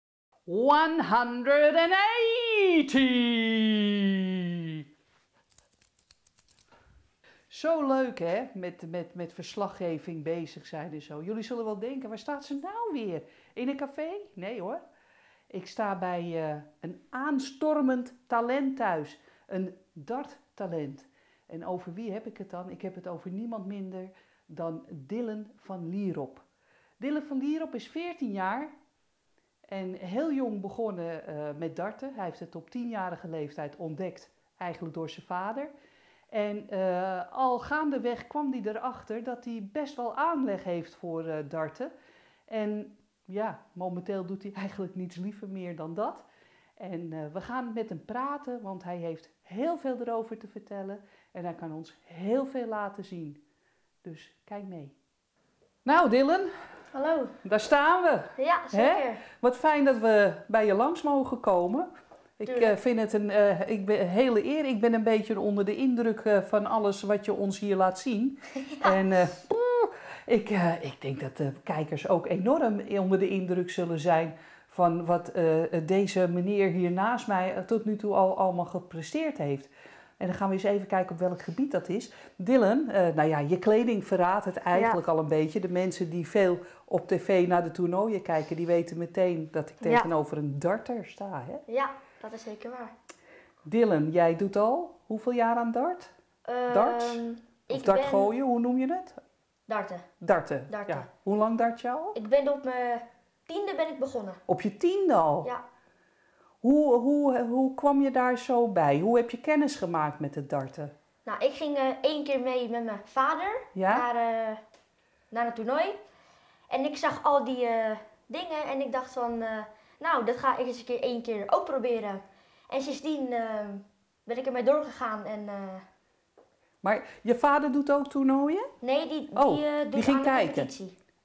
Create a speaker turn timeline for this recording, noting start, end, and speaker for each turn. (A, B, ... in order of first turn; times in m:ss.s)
0:00.5-0:04.8 A
0:07.5-0:14.8 A
0:15.5-0:26.4 A
0:27.0-0:28.7 A
0:29.7-0:35.7 A
0:36.3-0:41.9 A
0:42.5-0:53.4 A
0:54.0-0:54.9 A
0:55.8-0:56.5 A
0:56.9-0:57.4 B
0:57.4-1:01.9 A
0:58.4-0:59.2 B
1:02.4-1:31.6 A
1:02.4-1:02.8 B
1:08.7-1:09.0 B
1:24.7-1:25.0 B
1:29.8-1:30.1 B
1:31.7-1:32.9 B
1:33.7-1:36.1 A
1:36.4-1:38.4 B
1:36.7-1:39.2 A
1:39.7-1:40.1 B
1:40.2-1:42.2 A
1:40.7-1:41.1 B
1:42.2-1:44.4 B
1:44.5-1:45.5 A
1:46.6-1:50.9 A
1:51.2-1:54.6 B
1:53.8-1:54.0 A
1:55.3-1:56.0 B
1:56.7-2:05.8 B
2:06.8-2:08.7 A
2:08.8-2:11.0 B
2:09.4-2:10.7 A